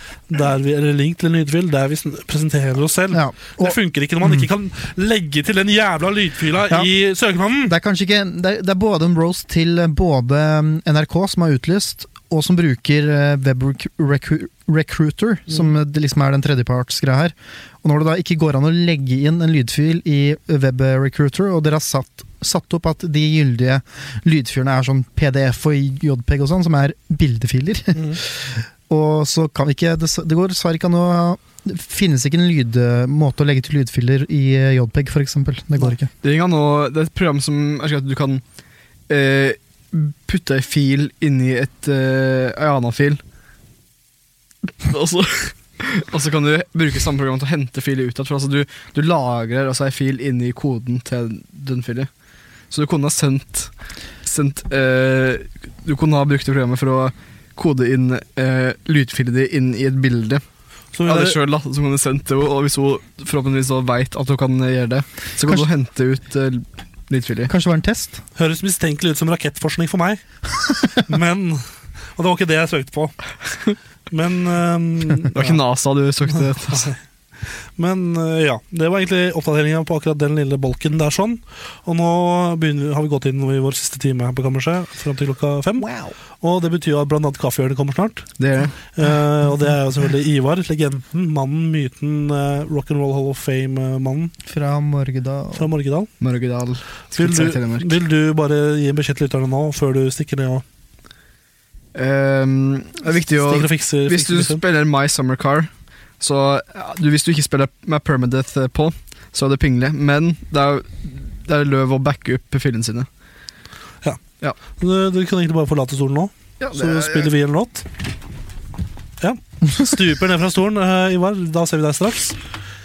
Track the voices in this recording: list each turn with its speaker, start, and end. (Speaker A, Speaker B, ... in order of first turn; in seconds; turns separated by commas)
Speaker A: 0.3-7.8, Speaker B: 3.1-4.5, Speaker B: 7.7-36.1, Speaker C: 36.1-38.4, Speaker C: 39.1-43.2, Speaker C: 44.8-52.1, Speaker C: 52.7-53.7, Speaker C: 54.2-60.4, Speaker A: 60.9-61.4, Speaker C: 61.0-67.5, Speaker B: 67.5-68.2, Speaker A: 68.4-70.2, Speaker A: 70.9-71.7, Speaker A: 72.2-73.2, Speaker A: 74.1-75.6, Speaker C: 75.3-76.9, Speaker A: 76.7-85.9, Speaker B: 85.8-86.2, Speaker A: 86.4-88.3, Speaker C: 88.4-88.8, Speaker A: 88.9-94.3, Speaker B: 94.4-95.7, Speaker A: 95.6-96.1, Speaker C: 96.2-98.0, Speaker A: 97.2-100.6, Speaker C: 102.0-113.1, Speaker A: 103.4-104.6, Speaker A: 114.8-117.9, Speaker C: 116.6-117.3, Speaker A: 119.2-122.4